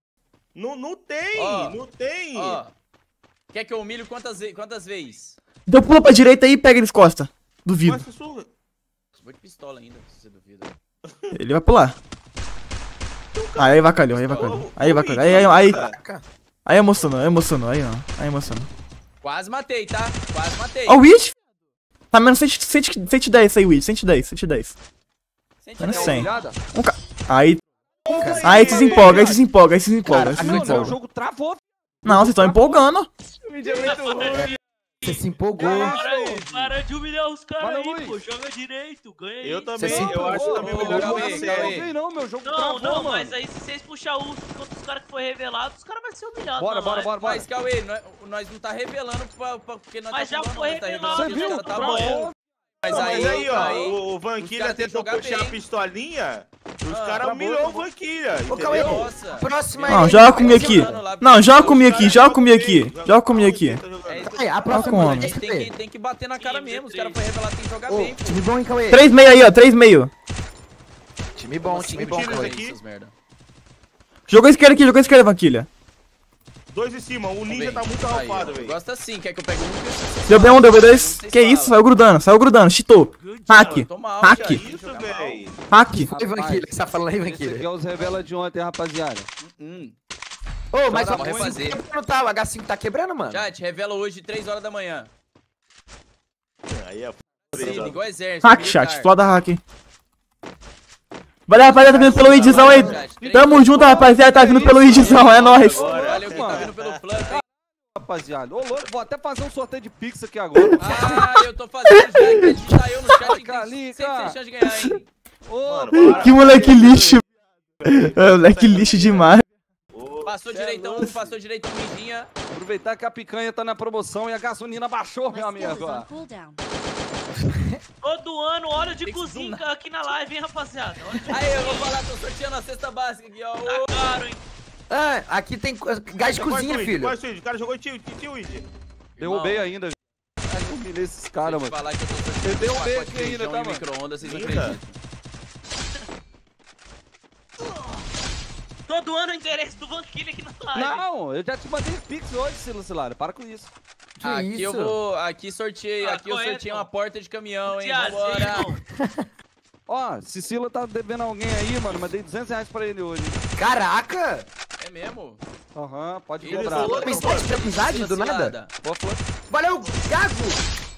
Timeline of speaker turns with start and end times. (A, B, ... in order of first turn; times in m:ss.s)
0:00.5-0:02.6 A
0:01.3-0:01.8 B
0:02.3-0:02.7 B
0:03.5-0:05.4 B
0:05.7-0:08.0 C
0:07.8-0:08.5 A
0:09.2-0:10.7 B
0:11.0-0:11.3 A
0:11.3-0:12.0 C
0:13.3-0:15.9 A
0:13.6-0:15.8 C
0:14.1-0:14.6 B
0:15.3-0:16.2 D
0:16.6-0:18.7 C
0:19.2-0:21.0 B
0:20.9-0:21.3 C
0:22.1-0:24.7 C
0:25.6-0:26.4 B
0:25.8-0:27.6 C
0:25.8-0:26.6 E
0:28.0-0:29.4 E
0:28.1-0:28.6 D
0:28.2-0:29.3 A
0:28.4-0:30.9 C
0:30.0-0:31.0 D
0:30.2-0:32.8 E
0:32.0-0:33.1 C
0:33.4-0:34.6 A
0:33.6-0:40.2 F
0:34.3-0:36.0 D
0:35.6-0:36.7 E
0:37.6-0:38.2 E
0:39.4-0:41.9 A
0:39.8-0:40.8 D
0:40.2-0:43.4 E
0:40.6-0:41.8 B
0:40.9-0:41.3 F
0:42.4-0:47.1 F
0:46.6-0:47.4 E
0:46.8-0:52.3 B
0:50.1-0:52.2 F
0:51.1-0:52.3 E
0:52.8-0:55.6 B
0:52.8-0:59.1 A
0:52.9-0:53.7 D
0:56.9-0:57.3 B
0:57.2-0:57.9 E
0:58.5-1:01.0 D
0:58.5-1:02.2 B
0:59.9-1:03.8 C
1:01.6-1:04.3 A
1:04.1-1:08.4 B
1:04.2-1:05.7 D
1:04.7-1:05.3 C
1:06.4-1:07.2 A
1:07.9-1:09.0 D
1:08.9-1:10.1 C
1:11.3-1:12.6 D
1:11.6-1:13.1 B
1:11.9-1:12.8 A
1:14.3-1:15.7 C
1:16.7-1:18.8 A
1:17.5-1:21.8 B
1:20.3-1:24.6 C
1:23.5-1:25.4 B
1:24.3-1:25.6 A
1:25.7-1:26.1 C
1:25.9-1:27.7 D
1:26.1-1:29.3 E
1:29.4-1:29.9 B
1:30.7-1:33.5 D
1:30.9-1:31.7 E
1:31.1-1:31.8 B
1:33.3-1:35.1 B
1:36.7-1:38.0 A
1:37.5-1:39.1 B
1:37.5-1:37.9 E
1:38.4-1:39.6 C
1:41.5-1:45.8 C
1:41.7-1:46.7 E
1:41.9-1:47.4 B
1:42.0-1:43.1 D
1:44.9-1:47.3 A
1:48.0-1:51.3 E
1:50.8-1:55.1 B
1:51.9-1:52.6 C
1:53.2-1:54.4 E
1:54.6-1:54.9 C
1:55.5-1:56.7 E
1:55.6-1:57.2 A
1:55.9-1:57.2 C
1:57.8-1:59.4 A
1:57.8-1:59.4 C
1:59.9-2:00.4 A
2:00.2-2:02.3 B
2:00.5-2:01.2 E
2:02.5-2:06.1 E
2:05.3-2:06.6 F
2:08.0-2:12.0 F
2:09.0-2:09.6 B
2:11.3-2:14.1 B
2:13.6-2:14.4 F
2:14.9-2:17.2 D
2:16.3-2:18.7 A
2:19.2-2:19.7 B
2:19.2-2:21.8 E
2:21.4-2:25.0 B
2:22.4-2:23.8 E
2:24.2-2:24.8 A
2:28.9-2:31.0 F
2:30.7-2:33.7 E
2:34.2-2:35.0 D
2:34.2-2:38.7 B
2:36.0-2:36.9 F
2:37.6-2:38.8 F
2:38.9-2:39.3 D
2:39.9-2:43.4 E
2:43.6-2:44.5 D
2:44.8-2:45.4 B
2:45.7-2:47.1 E
2:46.4-2:48.7 B
2:46.5-2:47.5 A
2:46.7-2:47.5 F
2:46.8-2:48.7 D
2:48.8-2:49.2 E
2:49.5-2:50.6 D